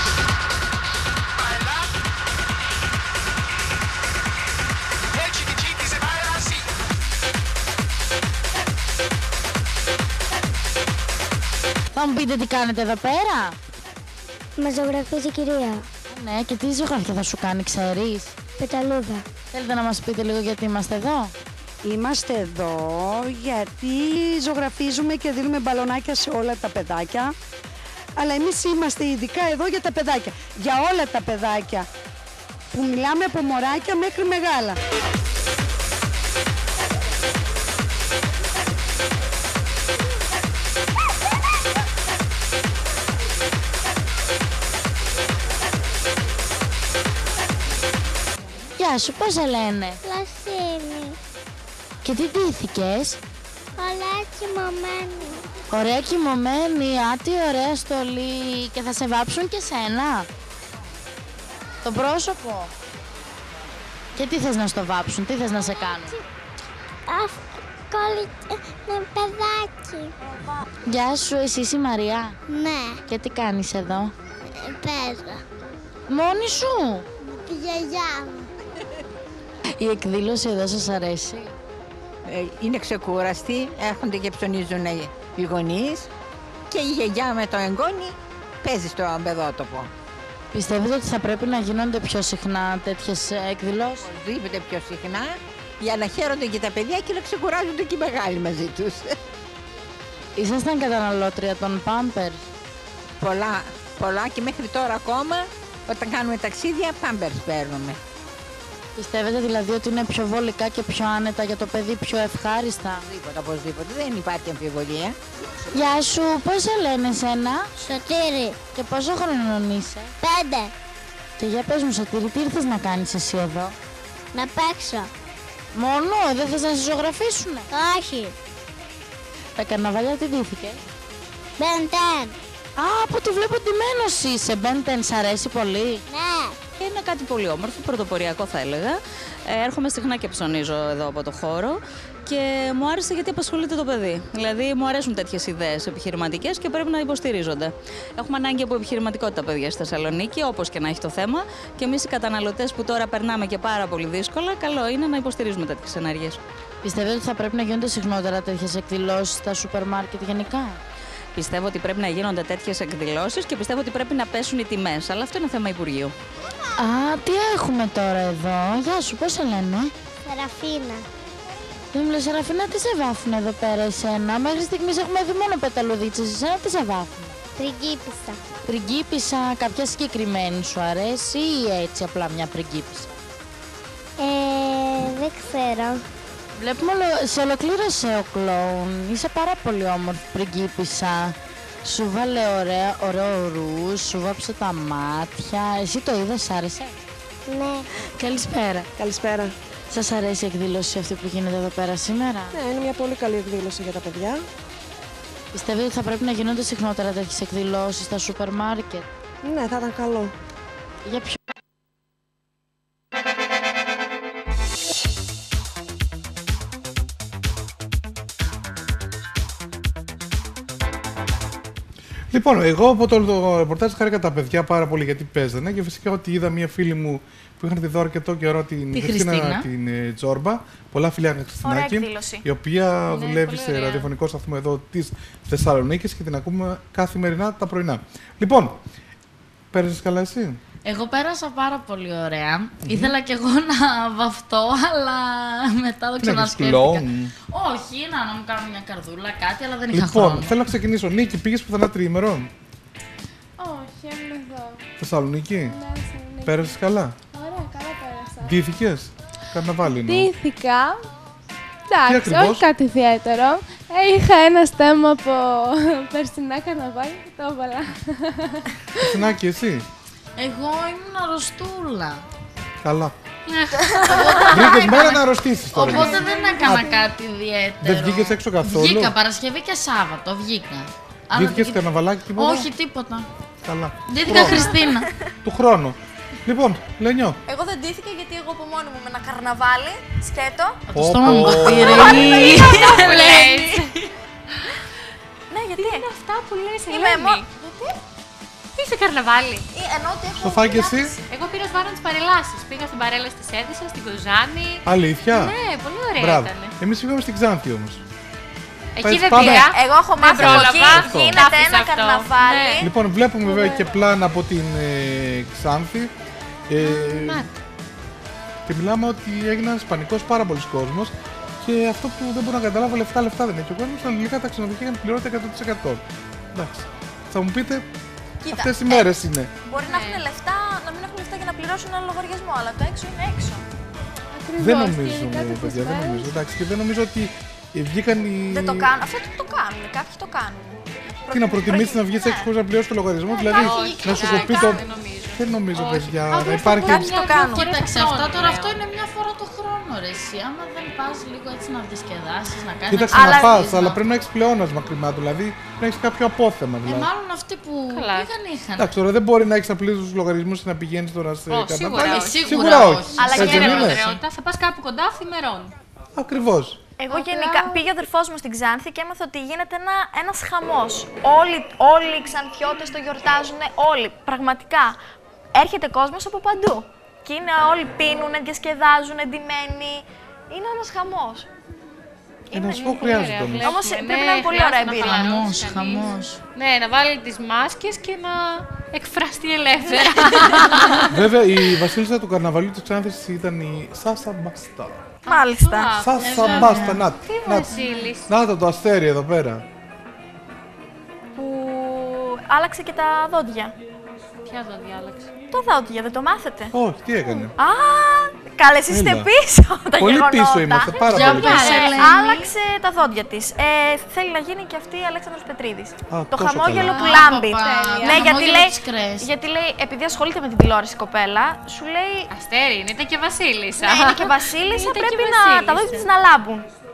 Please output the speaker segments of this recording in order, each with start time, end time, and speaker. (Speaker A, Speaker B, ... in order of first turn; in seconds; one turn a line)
Speaker A: 11.9-13.6
Speaker B: 14.6-15.8
Speaker A: 16.1-18.4
Speaker B: 18.6-19.3
Speaker A: 19.5-21.3
Speaker C: 21.8-27.3
Speaker C: 28.2-31.9
Speaker C: 32.7-34.8
Speaker A: 48.8-50.0
Speaker B: 50.0-51.2
Speaker A: 52.0-53.2
Speaker B: 53.8-55.4
Speaker A: 55.7-60.3
Speaker A: 61.8-62.7
Speaker A: 64.1-66.2
Speaker B: 67.1-70.1
Speaker A: 70.9-72.4
Speaker B: 72.5-73.0
Speaker A: 73.1-74.1
Speaker B: 74.5-75.4
Speaker A: 76.1-77.0
Speaker B: 77.2-78.5
Speaker A: 79.8-81.5
Speaker D: 82.3-86.1
Speaker D: 86.7-89.9
Speaker A: 90.5-94.0
Speaker D: 94.0-99.1
Speaker A: 100.3-102.4
Speaker D: 103.2-108.0
Speaker A: 109.0-113.0
Speaker D: 113.1-115.2
Speaker A: 115.7-117.7
Speaker B: 117.8-118.6
Speaker A: 118.7-120.1
Speaker B: 120.2-120.7
Speaker A: 121.4-123.7
Speaker B: 124.3-125.1
Speaker A: 125.7-127.7
Speaker B: 127.7-128.3
Speaker A: 129.6-130.8
Speaker B: 131.6-132.4
Speaker A: 132.8-136.0
Speaker B: 136.1-136.6
Speaker E: 136.8-156.4
Speaker A: 156.8-160.8
Speaker E: 161.3-166.1
Speaker A: 166.8-169.9
Speaker B: 170.2-171.1
Speaker A: 171.9-177.3
Speaker B: 177.6-178.4
Speaker A: 178.6-183.1
Speaker B: 184.2-186.0
Speaker A: 186.5-197.0
Speaker B: 197.5-197.9
Speaker A: 198.0-198.9
Speaker F: 199.0-199.5
Speaker A: 199.9-202.6
Speaker F: 202.5-204.4
Speaker A: 205.5-209.1
Speaker F: 209.4-210.3
Speaker A: 211.0-211.4
Speaker G: 222.3-238.8
Speaker A: 228.9-229.7
Speaker H: 231.6-232.4
Speaker I: 233.1-234.1
Speaker G: 239.7-240.6
Speaker A: 240.8-250.6
Speaker G: 242.8-243.2
Speaker G: 246.2-247.3
Speaker G: 249.9-252.5
Speaker J: 253.6-254.8
Speaker G: 255.0-255.8
Speaker J: 255.6-256.8
Speaker G: 256.4-257.1
Speaker J: 257.3-258.6
Speaker G: 258.4-260.3
Speaker J: 259.9-261.1
Speaker J: 261.9-268.6
Speaker G: 262.0-262.7
Speaker G: 269.0-269.9
Speaker A: 270.4-272.2
Speaker G: 272.8-273.1
Speaker A: 273.5-281.8
Speaker H: 274.0-274.4
Speaker G: 274.4-276.9
Speaker J: 276.2-276.7
Speaker G: 277.8-279.1
Speaker G: 281.3-282.7
Speaker A: 282.4-283.3
Speaker G: 283.6-284.7
Speaker A: 284.1-285.1
Speaker H: 284.3-284.9
Speaker G: 285.4-287.4
Speaker H: 287.5-290.8
Speaker A: 290.9-293.4
Speaker G: 290.9-292.3
Speaker H: 291.6-293.9
Speaker I: 292.7-294.1
Speaker H: 295.5-296.1
Speaker I: 295.8-297.9
Speaker H: 296.9-297.5
Speaker I: 298.7-299.6
Speaker H: 299.7-301.2
Speaker G: 300.4-301.1
Speaker I: 301.3-306.7
Speaker G: 304.8-305.6
Speaker G: 306.1-308.0
Speaker I: 308.9-312.9
Speaker G: 309.0-309.7
Speaker H: 309.5-312.9
Speaker G: 310.3-311.4
Speaker G: 312.8-316.1
Speaker G: 316.7-317.5
Speaker I: 316.8-317.5
Speaker G: 318.7-327.9
Speaker H: 328.4-333.6
Speaker G: 328.5-329.5
Speaker I: 329.8-330.2
Speaker J: 334.4-336.4
Speaker G: 334.6-338.9
Speaker H: 338.5-342.5
Speaker G: 341.3-347.1
Speaker A: 343.4-344.8
Speaker I: 343.5-348.8
Speaker H: 346.4-347.6
Speaker A: 347.4-354.0
Speaker G: 352.9-357.1
Speaker H: 353.1-353.5
Speaker A: 356.8-358.9
Speaker I: 357.9-358.3
Speaker G: 358.8-364.0
Speaker I: 361.5-365.7
Speaker A: 362.0-364.2
Speaker H: 363.2-364.0
Speaker G: 366.1-366.8
Speaker H: 367.0-375.0
Speaker J: 367.1-367.8
Speaker H: 375.5-381.5
Speaker H: 382.5-382.8
Speaker G: 382.5-383.7
Speaker I: 382.6-391.2
Speaker H: 383.6-385.4
Speaker A: 385.0-386.4
Speaker H: 390.2-390.6
Speaker G: 391.1-395.0
Speaker I: 395.2-398.3
Speaker H: 395.3-396.5
Speaker G: 396.0-397.8
Speaker A: 396.2-397.1
Speaker G: 398.3-399.6
Speaker H: 401.3-403.7
Speaker I: 404.4-405.3
Speaker H: 405.5-406.7
Speaker G: 406.7-407.5
Speaker H: 407.6-422.3
Speaker G: 408.9-409.3
Speaker G: 410.0-412.1
Speaker I: 411.0-411.9
Speaker A: 411.1-412.5
Speaker G: 416.1-417.1
Speaker A: 416.9-419.3
Speaker I: 422.3-426.1
Speaker H: 423.8-426.7